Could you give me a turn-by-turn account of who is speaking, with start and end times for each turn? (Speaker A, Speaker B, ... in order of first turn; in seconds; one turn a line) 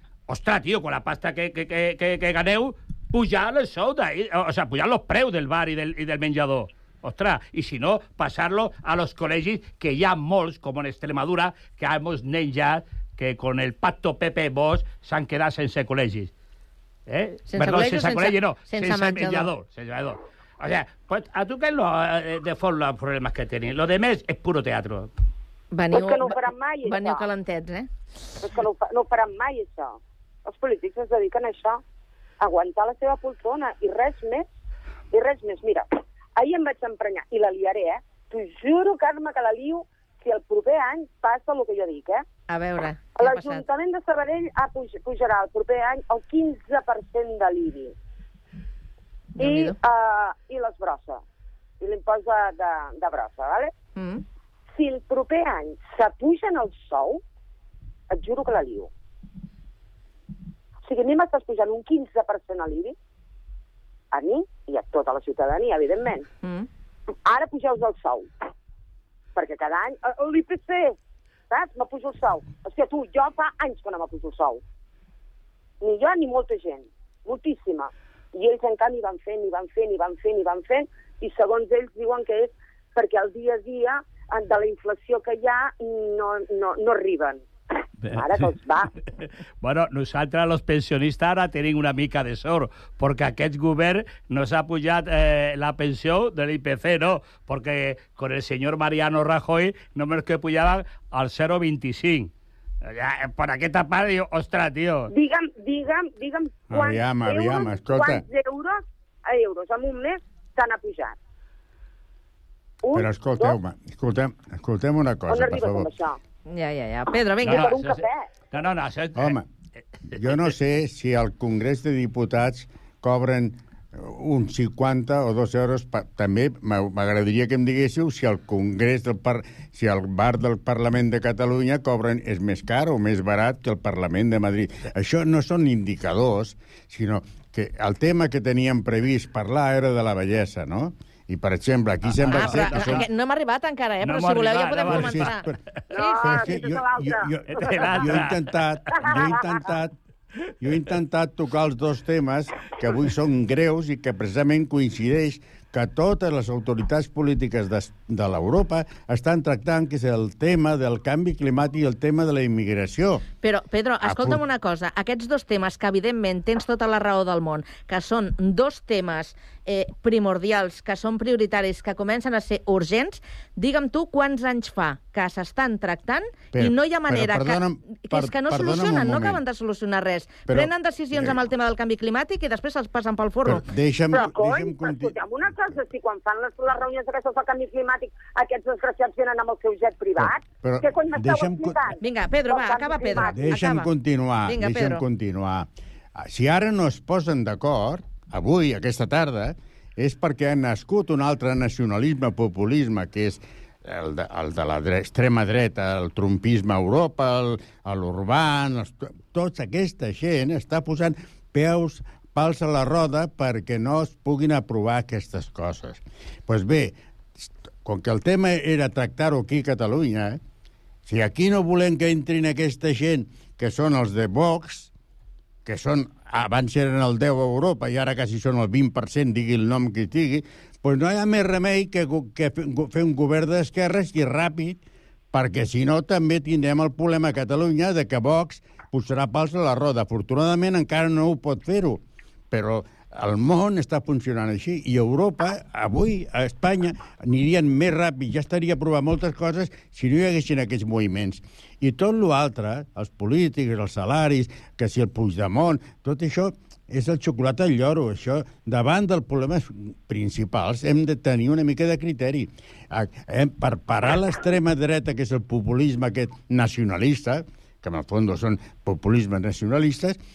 Speaker A: 0.3-16.3
Speaker A: 17.1-25.1
Speaker B: 17.5-19.5
Speaker B: 25.7-27.9
Speaker C: 25.9-27.3
Speaker C: 28.4-31.8
Speaker C: 32.4-34.5
Speaker C: 35.1-42.2
Speaker B: 42.5-43.6
Speaker C: 43.1-47.9
Speaker C: 49.4-51.2
Speaker B: 49.4-49.8
Speaker C: 51.8-53.7
Speaker B: 54.0-54.2
Speaker C: 54.7-57.2
Speaker C: 58.1-58.9
Speaker C: 60.8-62.9
Speaker C: 64.1-66.3
Speaker C: 67.2-68.3
Speaker C: 69.3-71.0
Speaker C: 71.5-74.6
Speaker C: 75.8-87.4
Speaker A: 88.0-88.4
Speaker C: 88.1-88.9
Speaker A: 89.6-102.3
Speaker A: 102.8-105.1
Speaker C: 105.1-111.2
Speaker D: 106.7-108.2
Speaker C: 112.8-113.6
Speaker D: 112.9-115.9
Speaker C: 115.3-116.2
Speaker B: 116.5-117.7
Speaker A: 117.4-119.4
Speaker C: 117.4-118.3
Speaker D: 119.2-119.5
Speaker A: 120.1-120.5
Speaker D: 120.2-143.1
Speaker A: 142.0-143.0
Speaker B: 142.3-145.4
Speaker A: 144.0-145.3
Speaker D: 144.9-145.6
Speaker C: 145.9-148.0
Speaker B: 145.9-146.3
Speaker D: 146.1-149.9
Speaker A: 147.6-148.4
Speaker C: 148.9-149.6
Speaker D: 150.6-163.2
Speaker B: 163.4-183.6
Speaker D: 164.0-164.4
Speaker D: 176.5-179.4
Speaker D: 180.5-181.4
Speaker D: 183.4-185.8
Speaker C: 184.1-193.5
Speaker D: 190.2-191.8
Speaker B: 192.0-193.9
Speaker D: 193.2-220.4
Speaker B: 194.4-195.0
Speaker D: 221.1-224.9
Speaker D: 225.6-234.8
Speaker D: 235.3-242.0
Speaker D: 242.5-270.2